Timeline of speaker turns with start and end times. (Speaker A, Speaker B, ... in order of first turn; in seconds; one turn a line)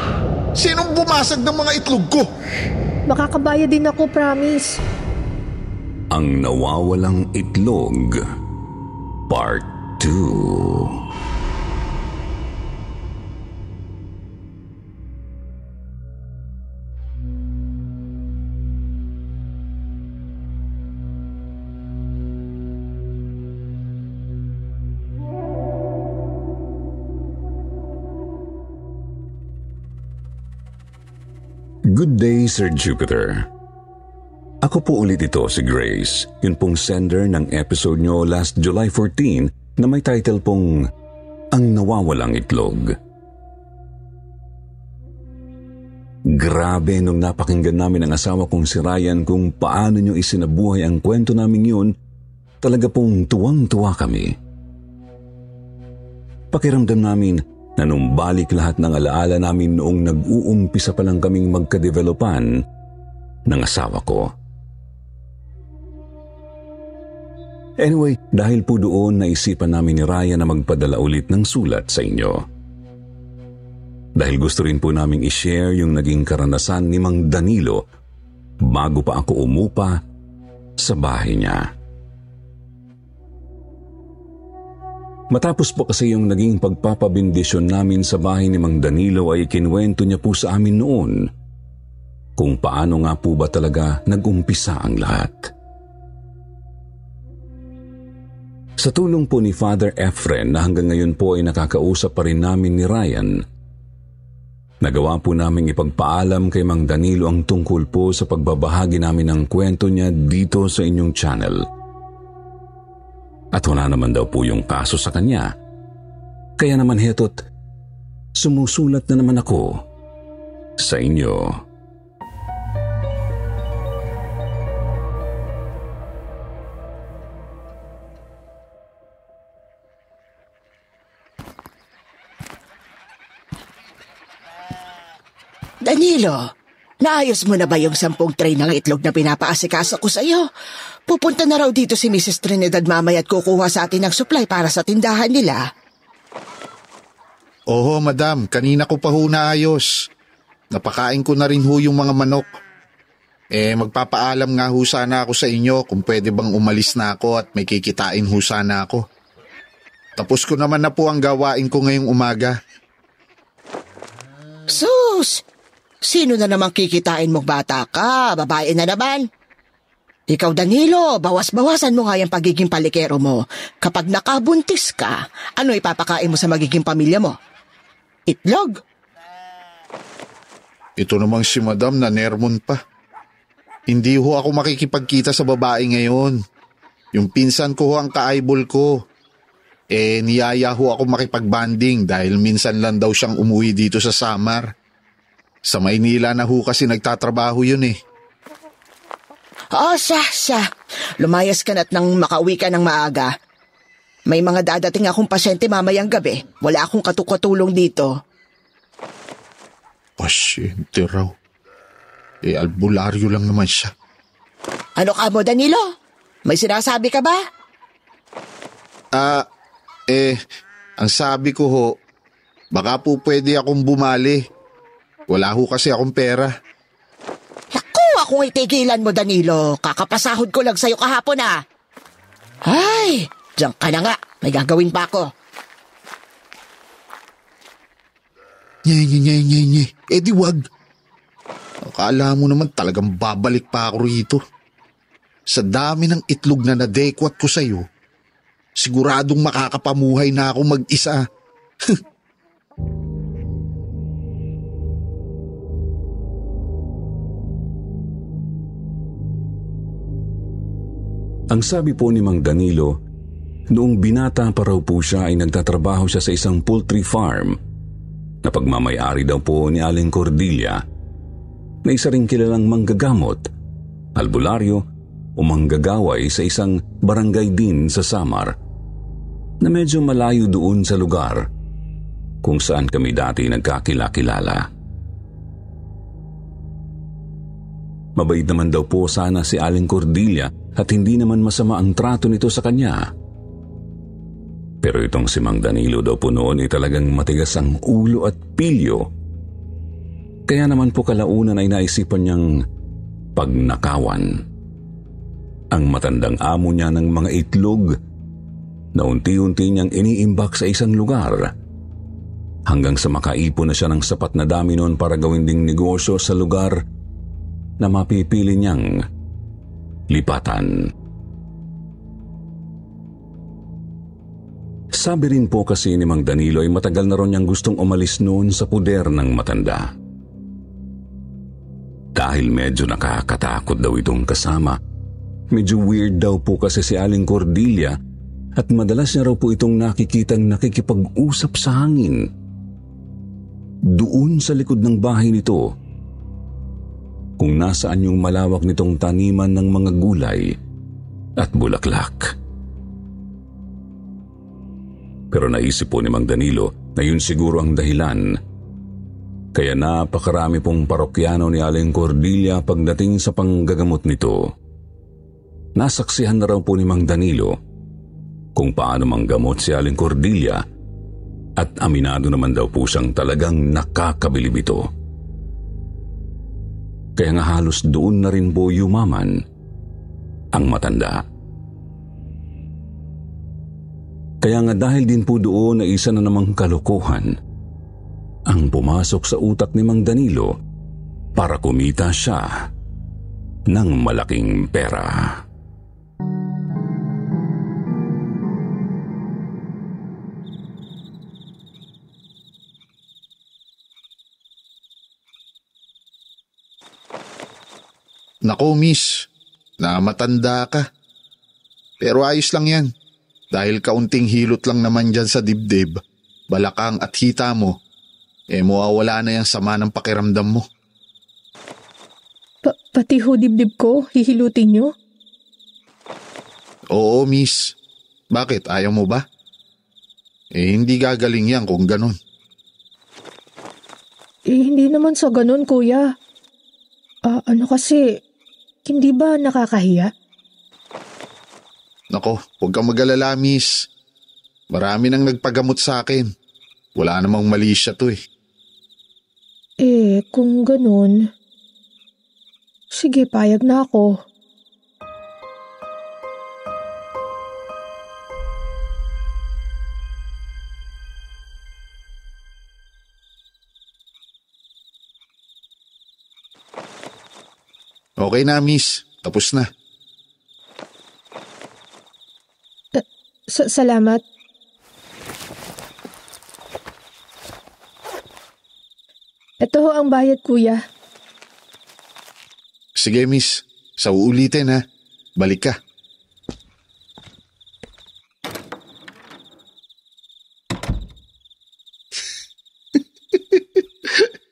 Speaker A: 0.6-2.3
Speaker B: 3.1-4.8
Speaker C: 6.1-8.2
Speaker C: 9.3-11.0
Speaker C: 31.9-33.5
Speaker C: 34.6-40.9
Speaker C: 41.5-43.0
Speaker C: 46.3-51.9
Speaker C: 52.6-54.4
Speaker C: 56.5-62.5
Speaker C: 63.5-64.3
Speaker C: 67.8-72.5
Speaker C: 74.2-77.8
Speaker C: 78.6-80.0
Speaker C: 80.8-81.7
Speaker C: 85.3-91.3
Speaker C: 92.4-95.5
Speaker C: 98.8-103.4
Speaker C: 104.8-111.7
Speaker C: 113.5-115.5
Speaker C: 116.6-117.4
Speaker C: 118.4-119.8
Speaker C: 120.8-121.6
Speaker D: 135.8-136.5
Speaker D: 137.0-140.5
Speaker D: 141.1-145.7
Speaker A: 147.7-150.1
Speaker A: 150.7-152.5
Speaker A: 153.6-159.0
Speaker A: 160.2-162.6
Speaker D: 164.7-165.4
Speaker D: 166.0-169.3
Speaker D: 170.3-177.3
Speaker D: 178.3-178.8
Speaker A: 181.0-182.8
Speaker A: 183.9-186.4
Speaker A: 187.2-188.9
Speaker A: 189.9-194.7
Speaker A: 195.7-198.0
Speaker D: 199.7-200.7
Speaker D: 201.2-203.3
Speaker D: 204.3-208.1
Speaker A: 210.2-211.3
Speaker A: 212.4-213.9
Speaker D: 215.0-215.8
Speaker D: 216.5-217.4
Speaker A: 219.2-219.5
Speaker A: 220.1-220.4
Speaker A: 221.0-222.0
Speaker A: 222.7-224.4
Speaker A: 225.3-226.5
Speaker D: 227.7-231.6
Speaker D: 232.7-235.3
Speaker A: 238.9-240.6
Speaker A: 241.8-244.4
Speaker A: 245.5-247.9
Speaker A: 248.8-251.2
Speaker C: 261.5-263.0
Speaker C: 263.7-267.6
Speaker C: 268.4-270.8
Speaker C: 271.9-273.5
Speaker C: 274.2-274.9
Speaker C: 275.4-278.6
Speaker C: 279.6-281.5
Speaker C: 282.4-284.7
Speaker C: 288.2-293.1
Speaker C: 294.8-299.1
Speaker C: 300.5-302.6
Speaker C: 303.4-304.4
Speaker C: 305.7-308.0
Speaker C: 308.9-311.5
Speaker C: 312.7-316.8
Speaker C: 317.8-319.0
Speaker C: 320.1-320.9
Speaker C: 324.9-329.9
Speaker C: 332.1-334.8
Speaker C: 335.5-338.0
Speaker C: 338.6-342.3
Speaker C: 343.9-345.7
Speaker C: 347.4-350.6
Speaker C: 351.4-352.3
Speaker C: 355.3-358.4
Speaker C: 359.6-364.5
Speaker C: 365.8-367.6
Speaker C: 368.6-370.6
Speaker C: 371.6-374.9
Speaker C: 377.2-379.4
Speaker C: 380.5-381.2
Speaker C: 384.4-387.3
Speaker C: 388.5-390.6
Speaker C: 391.4-392.7
Speaker C: 393.7-395.4
Speaker A: 408.5-409.3
Speaker A: 409.8-410.9
Speaker A: 412.0-412.9
Speaker A: 413.5-416.0
Speaker A: 416.5-417.8
Speaker A: 418.5-420.6
Speaker B: 422.6-424.9
Speaker A: 426.9-427.8
Speaker A: 428.3-429.2
Speaker A: 430.6-432.2
Speaker B: 434.5-436.1
Speaker B: 437.3-438.0
Speaker B: 438.9-440.1
Speaker A: 442.1-443.9
Speaker A: 444.7-446.3
Speaker A: 447.0-448.2
Speaker B: 449.8-451.2
Speaker B: 452.9-454.1
Speaker A: 468.2-469.7
Speaker B: 472.9-474.2
Speaker B: 479.6-480.8
Speaker A: 483.0-484.8
Speaker A: 485.4-485.8
Speaker A: 493.3-494.3